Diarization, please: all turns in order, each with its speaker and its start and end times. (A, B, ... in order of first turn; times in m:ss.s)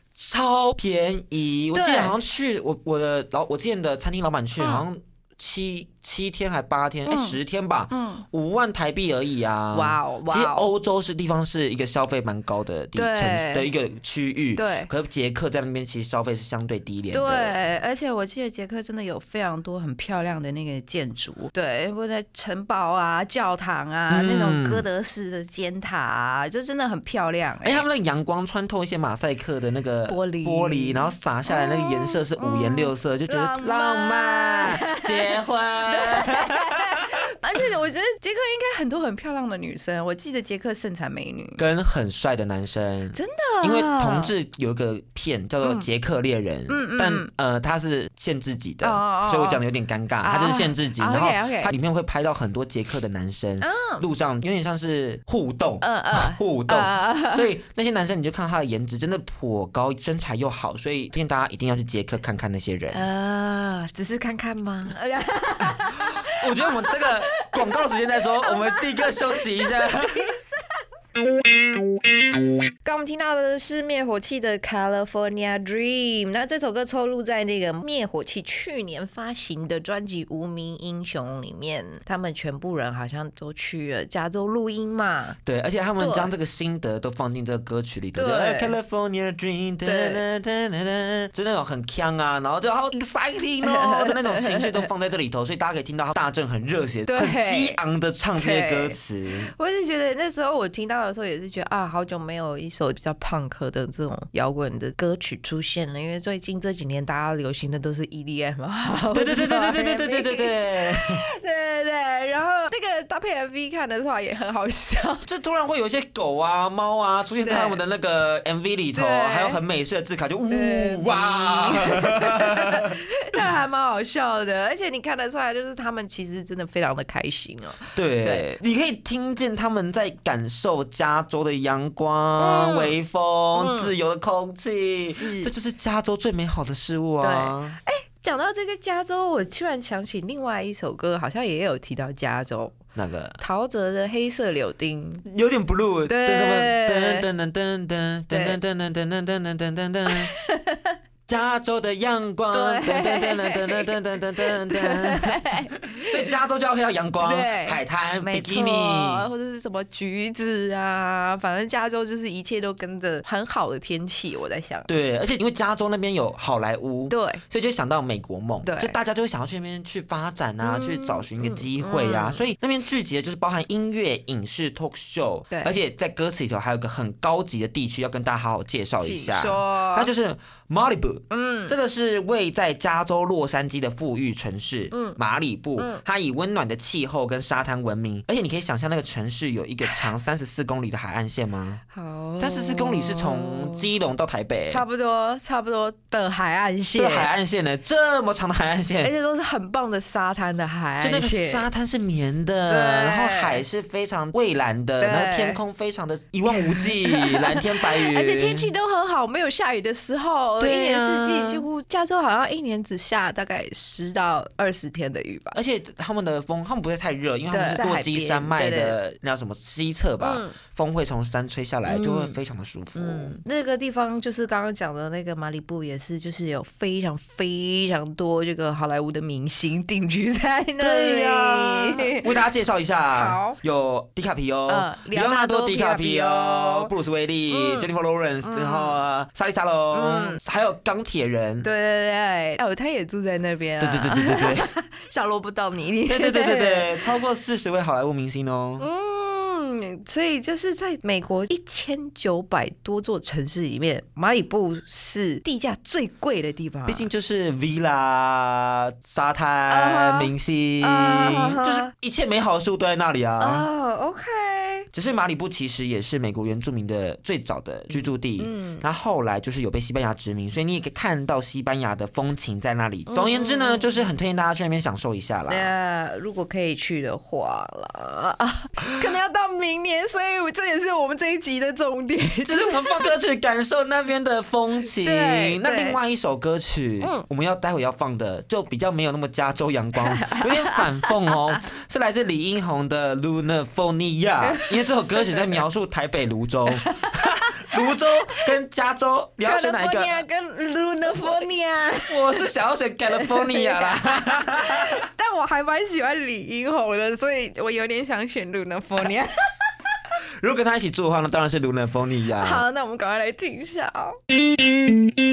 0:00.1-0:17.6 A
0:01.7-0:02.1 B
0:04.6-0:04.9 B
0:07.1-0:07.4 B
0:07.9-0:08.2 B
0:09.7-0:10.7 B
0:12.9-0:13.7 B
0:14.5-0:14.9 B
0:17.1-0:27.8 B
0:24.1-0:24.8 A
0:27.6-0:36.7 A
0:30.1-0:41.6 B
0:41.6-1:03.1 A
0:43.1-0:44.3 B
0:45.6-0:45.9 B
0:46.7-0:47.3 B
0:48.8-0:49.6 B
0:50.2-0:51.7 B
0:53.6-0:54.0 B
0:55.8-0:57.5 B
1:02.9-1:10.7 B
1:06.4-1:10.3 A
1:12.8-1:25.4 B
1:25.4-1:39.5 A
1:26.0-1:26.3 B
1:28.1-1:28.7 B
1:29.8-1:30.2 B
1:33.6-1:34.9 B
1:37.1-1:37.8 B
1:38.4-1:39.0 B
1:39.5-1:55.2 B
1:49.1-1:51.2 A
1:55.2-2:02.9 A
1:57.4-1:57.8 B
1:58.9-1:59.6 B
2:00.5-2:08.5 B
2:07.9-2:17.8 A
2:12.4-2:13.0 B
2:13.5-2:13.9 B
2:15.1-2:15.5 B
2:17.2-2:22.8 B
2:22.9-2:23.4 A
2:23.4-2:25.2 B
2:25.2-2:30.3 A
2:26.1-2:27.2 B
2:28.3-2:28.6 B
2:30.1-2:30.9 B
2:31.3-2:39.3 A
2:32.5-2:33.9 B
2:34.5-2:36.1 B
2:37.2-2:44.9 B
2:44.9-3:11.8 A
2:47.1-2:47.4 B
2:48.6-2:49.0 B
2:50.6-2:52.5 B
2:55.5-2:55.8 B
2:59.0-3:00.1 B
3:01.3-3:01.7 B
3:04.9-3:05.2 B
3:05.8-3:06.0 B
3:11.9-3:13.9 B
3:12.4-3:14.8 A
3:14.7-3:17.3 B
3:16.9-3:19.1 A
3:19.0-3:21.7 B
3:21.0-3:28.7 A
3:22.7-3:23.6 B
3:25.0-3:25.6 B
3:26.4-3:35.6 B
3:30.6-3:31.6 A
3:35.5-3:43.4 A
3:37.5-3:39.0 B
3:40.2-3:40.5 B
3:41.8-3:42.4 B
3:43.0-3:52.2 B
3:50.8-4:01.7 A
3:53.1-3:53.6 B
3:54.7-3:56.9 B
3:57.5-3:57.9 B
3:58.4-3:59.0 B
3:59.9-4:00.4 B
4:01.6-4:06.9 B
4:03.8-4:04.7 A
4:06.0-4:08.9 A
4:08.8-4:17.1 B
4:16.9-4:23.7 A
4:19.7-4:20.3 B
4:20.8-4:21.9 B
4:23.4-4:24.9 B
4:24.9-4:35.7 A
4:27.9-4:28.8 B
4:33.1-4:34.1 B
4:35.5-4:43.1 B
4:42.4-5:00.2 A
4:45.0-4:46.0 B
4:50.0-4:51.0 B
4:56.9-4:57.9 B
4:59.4-5:02.5 B
5:02.1-5:05.0 A
5:03.1-5:09.4 B
5:10.4-5:12.6 A
5:12.4-5:14.2 B